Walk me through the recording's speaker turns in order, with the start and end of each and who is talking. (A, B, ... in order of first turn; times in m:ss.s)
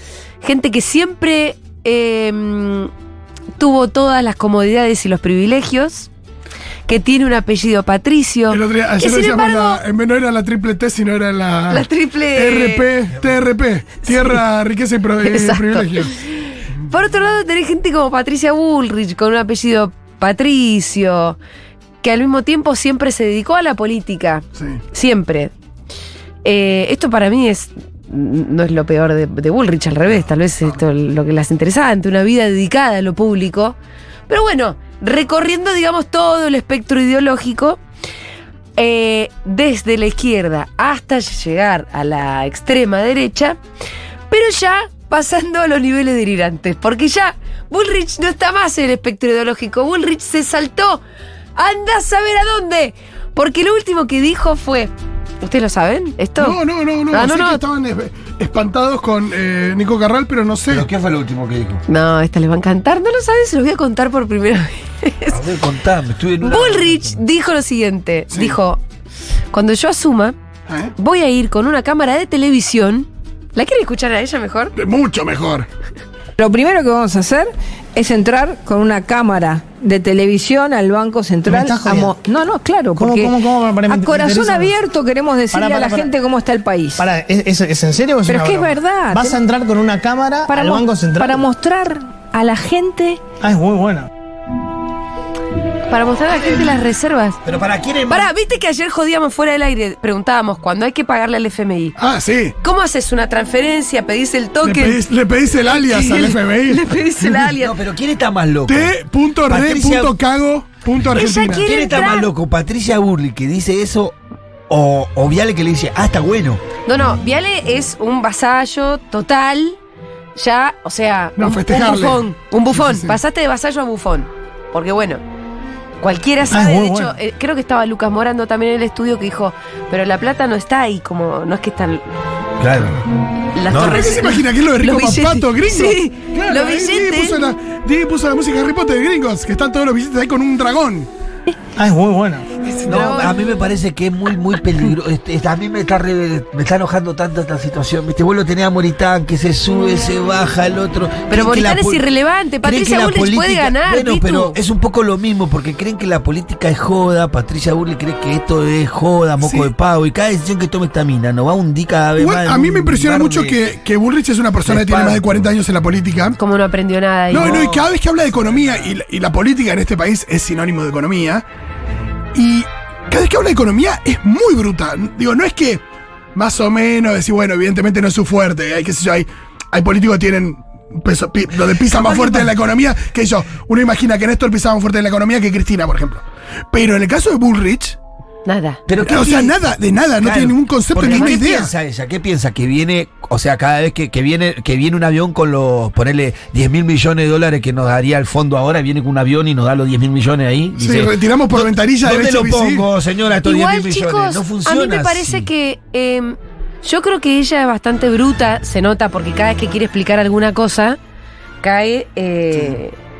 0:00.4-0:02.9 A
0:03.6-0:06.1 A
0:06.9-0:09.8 A
0:08.5-0:16.1 B
0:11.7-0:12.9 A
0:14.1-0:14.4 A
0:15.2-0:16.4 A
0:16.9-0:21.4 A
0:22.0-0:25.5 A
0:26.4-0:33.8 A
0:34.3-0:37.8 A
0:38.8-0:43.6 A
0:44.3-0:51.0 A
0:51.6-0:56.6 A
0:56.4-1:00.9 B
0:57.1-0:57.6 A
1:00.7-1:01.8 C
1:01.9-1:05.4 A
1:05.3-1:07.2 C
1:06.4-1:08.8 A
1:08.3-1:08.6 B
1:09.5-1:10.4 A
1:10.7-1:10.9 B
1:11.0-1:14.7 A
1:14.8-1:15.7 B
1:16.4-1:27.0 D
1:21.5-1:22.2 E
1:23.0-1:24.8 E
1:25.5-1:26.1 E
1:27.0-1:31.4 E
1:28.3-1:29.4 D
1:30.5-1:33.2 D
1:33.4-1:34.1 E
1:35.9-1:37.4 A
1:37.4-1:38.3 C
1:38.1-1:42.0 A
1:42.0-1:42.6 B
1:42.6-1:45.0 A
1:44.6-1:47.4 B
1:45.6-1:47.7 A
1:47.5-1:49.0 C
1:48.7-1:51.7 B
1:49.5-1:50.2 C
1:51.1-1:52.3 A
1:51.6-1:54.2 C
1:54.7-1:56.6 C
1:56.9-1:59.8 A
2:00.4-2:05.2 A
2:01.4-2:03.2 B
2:06.0-2:12.0 A
2:06.5-2:07.2 E
2:12.6-2:13.0 C
2:13.6-2:17.5 A
2:13.7-2:14.2 C
2:13.8-2:21.1 B
2:21.8-2:22.5 E
2:22.7-2:23.4 A
2:22.9-2:32.0 C
2:31.3-2:34.6 A
2:32.6-2:43.6 C
2:39.4-2:39.7 B
2:42.2-2:46.4 B
2:44.6-2:45.2 C
2:46.4-2:47.6 A
2:47.3-2:48.9 C
2:47.3-2:51.4 B
2:52.4-2:55.8 B
2:56.4-3:08.0 B
3:02.1-3:02.4 C
3:08.5-3:08.8 A
3:08.9-3:09.6 C
3:09.0-3:11.7 B
3:10.2-3:25.5 C
3:11.0-3:11.4 A
3:20.8-3:22.8 B
3:23.4-3:31.0 A
3:31.6-3:33.0 A